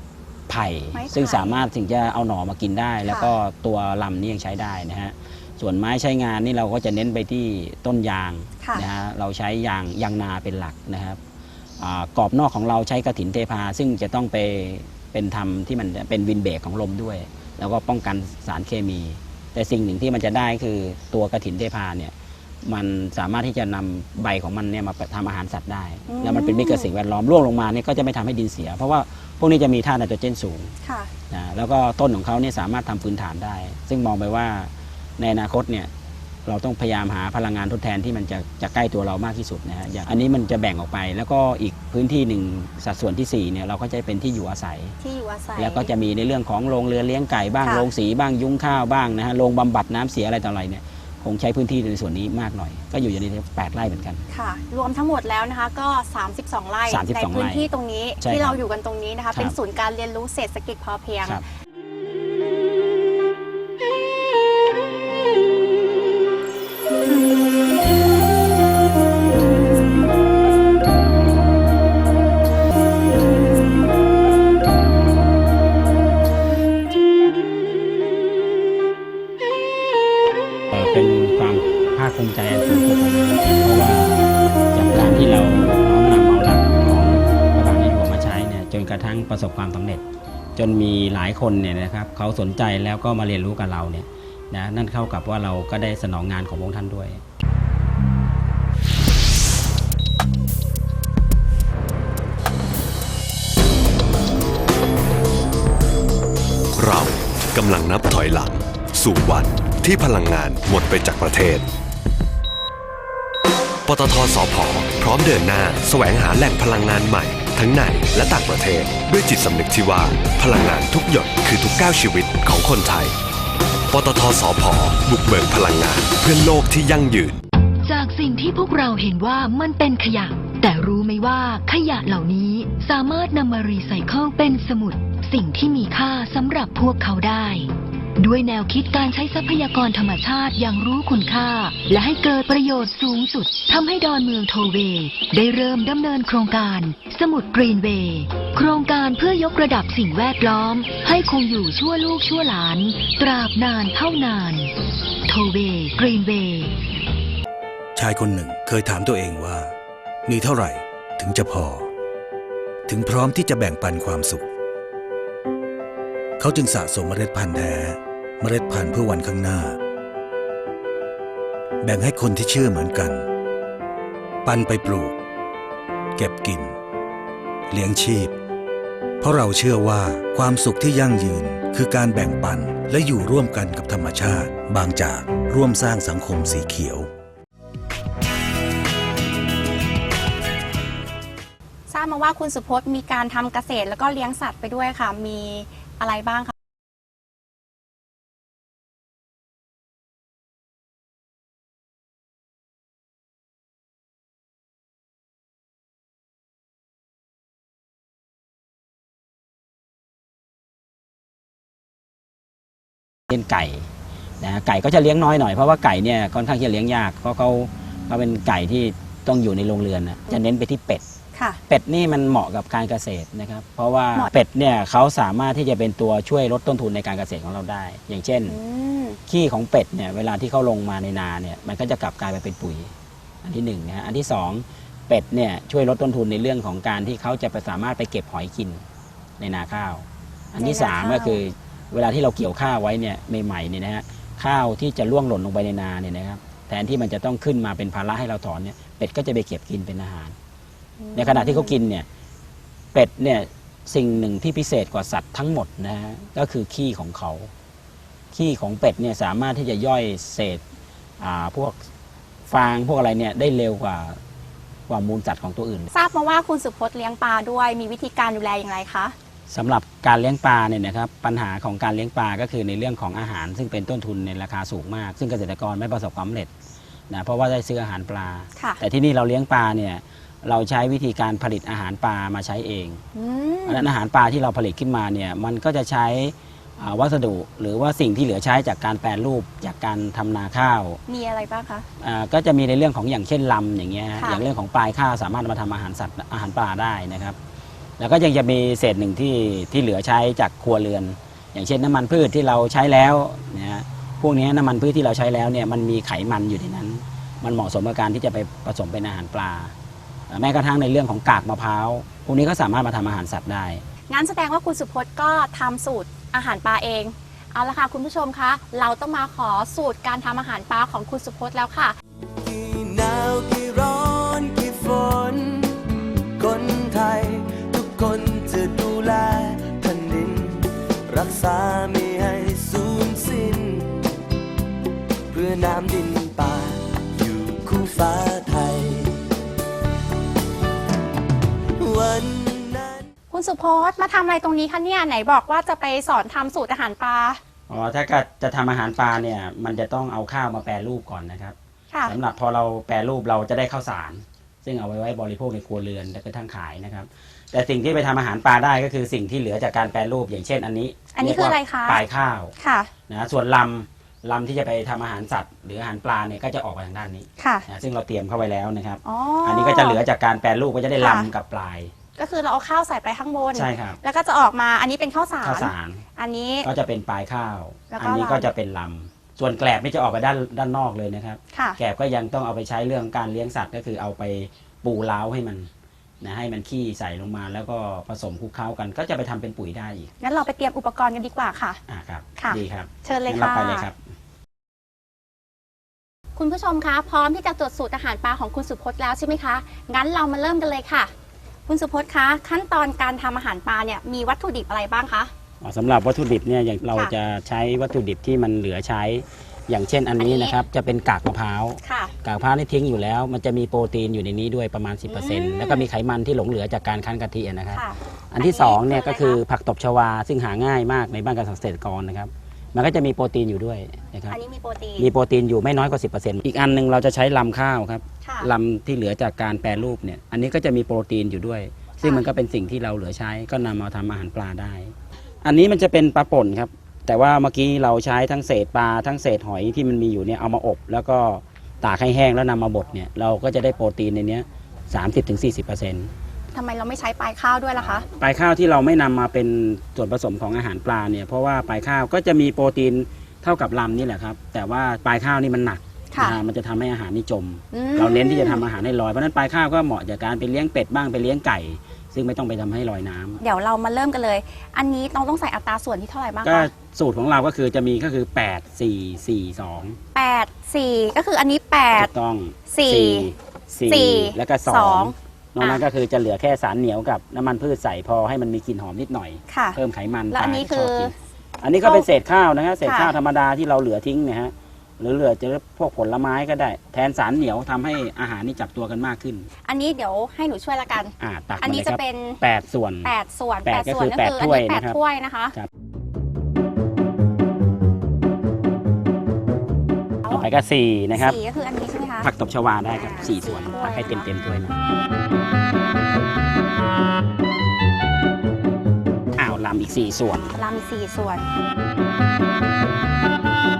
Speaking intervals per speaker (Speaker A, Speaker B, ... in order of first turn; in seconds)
Speaker A: 0.5-11.2, 11.8-22.1, 22.6-30.7, 31.3-35.9, 36.5-45.0, 45.6-54.2, 56.9-57.7, 58.2-58.6, 80.7-90.0, 90.5-97.2, 213.3-213.9, 214.4-221.0, 221.7-228.6, 229.3-232.9, 233.4-238.8, 239.4-250.3, 251.1-252.1, 252.9-257.5, 258.3-260.6, 261.2-261.8, 262.5-264.2, 264.9-265.9, 269.5-276.5, 277.1-283.0, 283.6-291.0, 292.0-297.4, 298.0-309.7, 310.3-313.8, 347.7-362.5, 363.1-371.9, 373.5-374.0, 375.4-376.0, 376.6-385.7, 386.2-390.1, 391.9-394.0, 405.6-424.4, 425.0-446.1, 447.8-463.4, 466.4-470.0, 471.9-489.5, 491.2-493.1, 493.6-495.0, 500.3-501.4, 502.2-504.8, 509.4-510.6
Speaker B: 0.9-1.6, 3.0-3.3, 26.1-26.9, 30.8-31.1, 45.0-45.9, 47.6-47.9, 54.3-61.4, 191.9-196.5, 221.3-221.6, 228.5-229.2, 240.6-241.4, 251.0-251.7, 265.9-269.1, 283.1-283.9, 291.1-291.9, 314.1-322.0, 343.3-347.4, 351.9-352.1, 361.1-362.0, 362.6-362.9, 367.4-367.6, 369.0-370.0, 371.0-371.3, 372.2-376.7, 377.9-378.5, 381.5-381.8, 390.2-391.8, 392.4-393.9, 396.4-401.1, 401.7-405.3, 410.2-410.6, 411.8-412.1, 415.1-415.9, 417.7-419.4, 424.3-425.1, 428.2-428.5, 432.0-432.3, 446.5-448.1, 456.1-456.4, 457.7-458.6, 463.4-466.7, 470.1-472.1, 472.7-473.3, 473.9-475.8, 479.5-479.8, 480.3-481.1, 482.8-483.1, 489.6-492.4, 493.0-495.5, 501.1-502.3, 502.9-504.2, 510.5-511.5
Speaker C: 106.7-111.7, 113.8-123.1, 123.9-127.4
Speaker D: 127.8-154.7, 155.2-156.7
Speaker E: 157.9-159.7, 160.2-161.9, 162.9-164.4, 166.4-169.8, 171.8-173.2, 174.4-175.1, 176.2-176.8, 177.7-178.3, 179.2-187.1
Speaker F: 322.4-334.0, 335.3-339.2, 341.8-343.1